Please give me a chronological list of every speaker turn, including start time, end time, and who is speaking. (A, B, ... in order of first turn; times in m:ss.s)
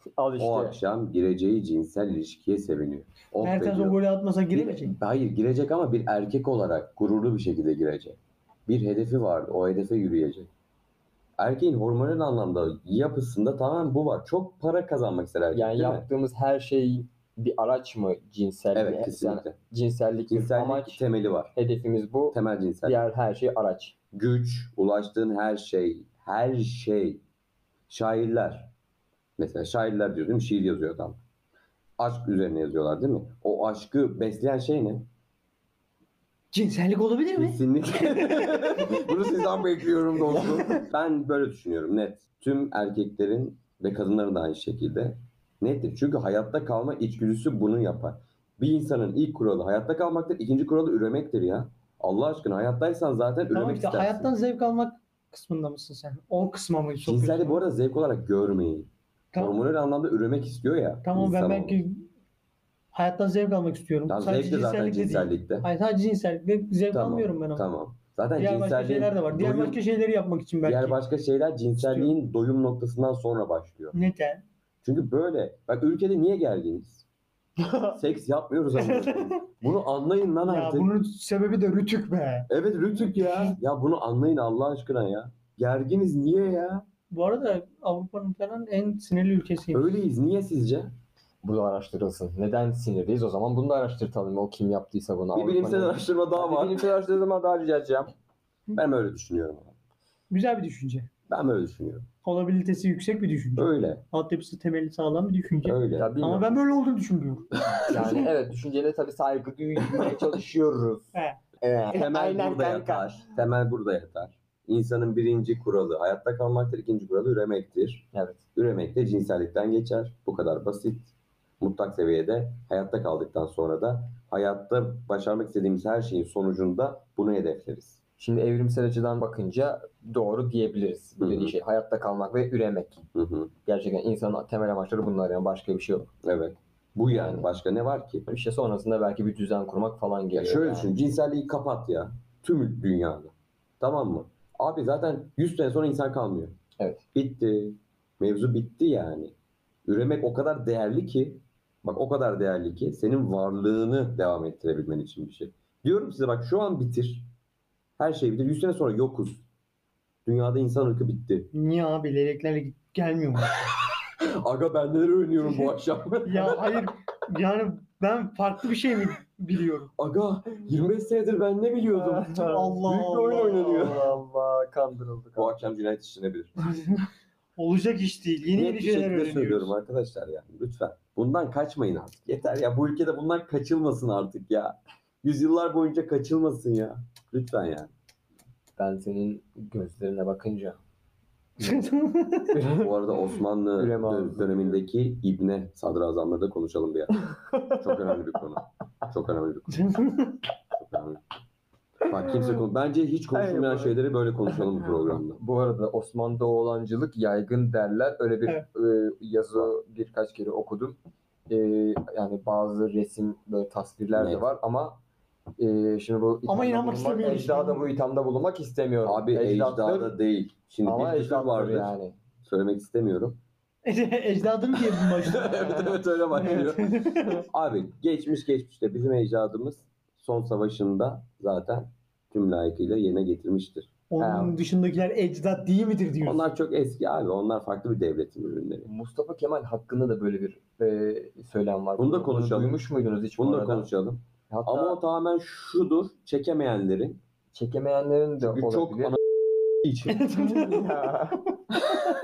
0:00.2-0:00.8 A
0:00.4-0:04.0 B
0:03.4-0:05.0 C
0:04.5-0:10.5 B
0:11.4-0:16.1 B
0:15.5-0:21.0 A
0:18.7-0:19.6 B
0:20.3-0:21.5 B
0:21.5-0:23.9 A
0:22.3-0:23.0 B
0:24.1-0:27.2 B
0:27.9-0:28.7 B
0:29.4-0:31.2 B
0:32.0-0:35.1 B
0:36.5-0:38.8 C
0:37.3-0:54.3 B
0:40.3-0:40.6 A
0:53.5-0:57.6 C
0:57.0-1:01.8 B
0:59.3-0:59.6 C
1:01.0-1:02.0 C
1:02.9-1:07.6 C
1:04.1-1:05.7 B
1:06.9-1:09.8 B
1:08.4-1:11.0 C
1:10.6-1:14.0 B
1:11.8-1:12.1 C
1:13.9-1:14.4 C
1:14.8-1:17.0 B
1:17.9-1:20.9 B
1:18.8-1:19.4 C
1:20.4-1:23.6 C
1:22.5-1:26.8 B
1:27.1-1:30.0 C
1:29.7-1:30.9 B
1:31.4-1:38.1 A
1:35.3-1:36.8 B
1:38.7-1:39.7 B
1:40.3-1:41.1 C
1:41.3-1:42.1 B
1:42.2-1:47.5 C
1:43.6-1:44.0 B
1:45.6-1:46.2 B
1:46.0-1:46.6 A
1:47.7-1:48.3 B
1:47.8-1:53.0 A
1:51.1-1:51.4 C
1:51.9-2:08.0 B
1:58.1-1:58.4 A
2:08.2-2:13.0 A
2:11.2-2:11.5 B
2:13.1-2:13.5 B
2:13.6-2:16.1 A
2:16.2-2:18.2 B
2:17.1-2:17.5 A
2:18.3-2:20.9 A
2:20.3-2:26.6 B
2:27.1-2:29.3 B
2:29.8-2:37.3 B
2:38.0-2:39.4 B
2:40.2-2:41.5 B
2:41.5-2:43.6 C
2:44.2-2:46.8 B
2:46.2-2:49.9 C
2:50.0-2:54.1 B
2:51.9-2:55.6 A
2:52.3-2:53.5 C
2:55.4-2:56.5 B
2:57.6-2:59.7 C
2:58.5-3:07.9 B
3:08.8-3:10.8 A
3:11.6-3:12.6 C
3:12.5-3:14.8 A
3:12.7-3:19.9 B
3:17.3-3:17.8 A
3:19.7-3:20.4 C
3:20.7-3:21.2 B
3:22.0-3:25.4 B
3:23.3-3:24.0 A
3:24.6-3:31.0 A
3:31.5-3:35.0 A
3:34.2-3:34.4 B
3:35.6-3:40.2 A
3:36.4-3:37.9 C
3:39.0-3:41.9 B
3:40.8-3:42.2 A
3:42.4-3:43.4 B
3:43.8-3:45.8 C
3:45.2-3:46.9 B
3:45.4-3:46.7 A
3:46.3-3:47.4 C
3:47.5-3:53.9 B
3:54.1-3:56.5 C
3:54.2-3:54.6 A
3:56.2-3:58.9 B
3:58.8-4:03.9 A
4:02.0-4:07.2 B
4:04.5-4:05.0 A
4:07.5-4:09.2 A
4:08.4-4:09.2 B
4:09.8-4:10.5 B
4:10.2-4:12.1 A
4:10.2-4:10.9 C